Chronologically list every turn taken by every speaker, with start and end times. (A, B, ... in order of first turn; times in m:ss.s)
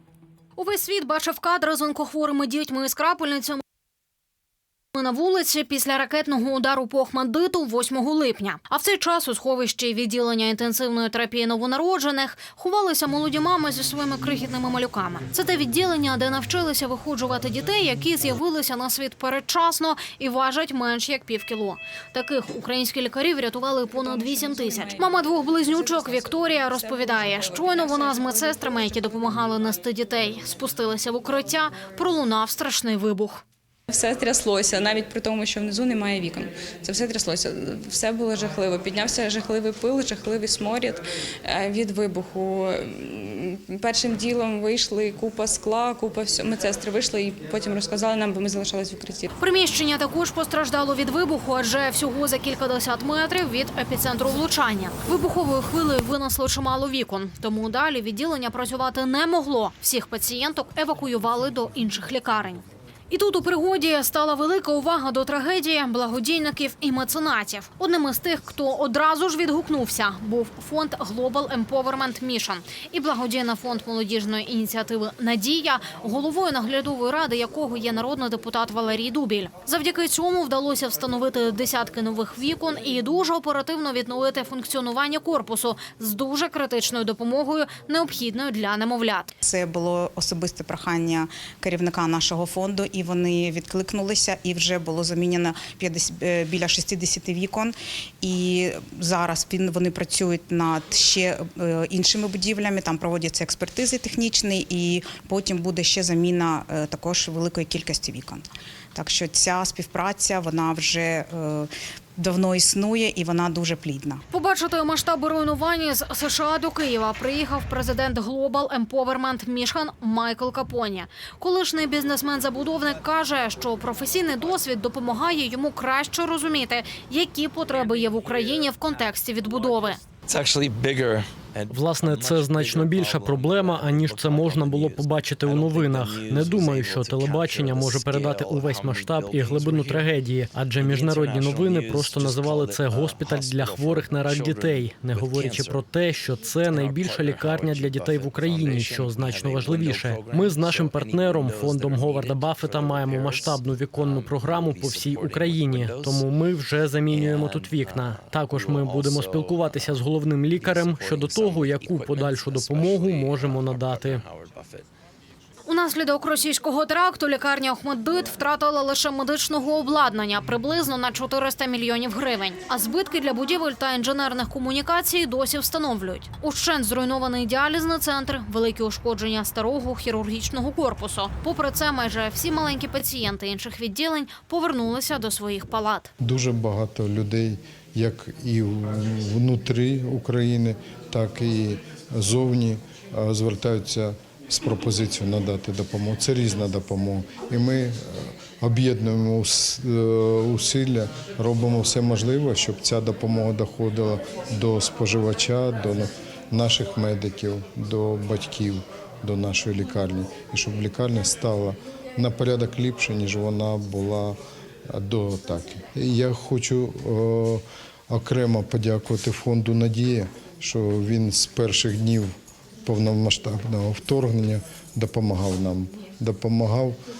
0:00.6-0:03.6 A
0:04.9-0:33.4 A
0:23.9-0:29.2 B
0:33.9-0:49.3 B
0:49.4-1:29.3 A
1:29.4-1:54.2 C
1:54.3-2:10.0 A
2:10.3-2:20.2 D
2:11.7-2:44.2 E
2:20.8-2:25.8 D
2:26.7-2:36.3 D
2:37.1-2:40.0 D
2:40.6-2:44.9 D
2:45.7-3:06.1 A
3:06.2-3:34.4 F
3:34.9-3:42.3 F
3:42.8-3:47.0 F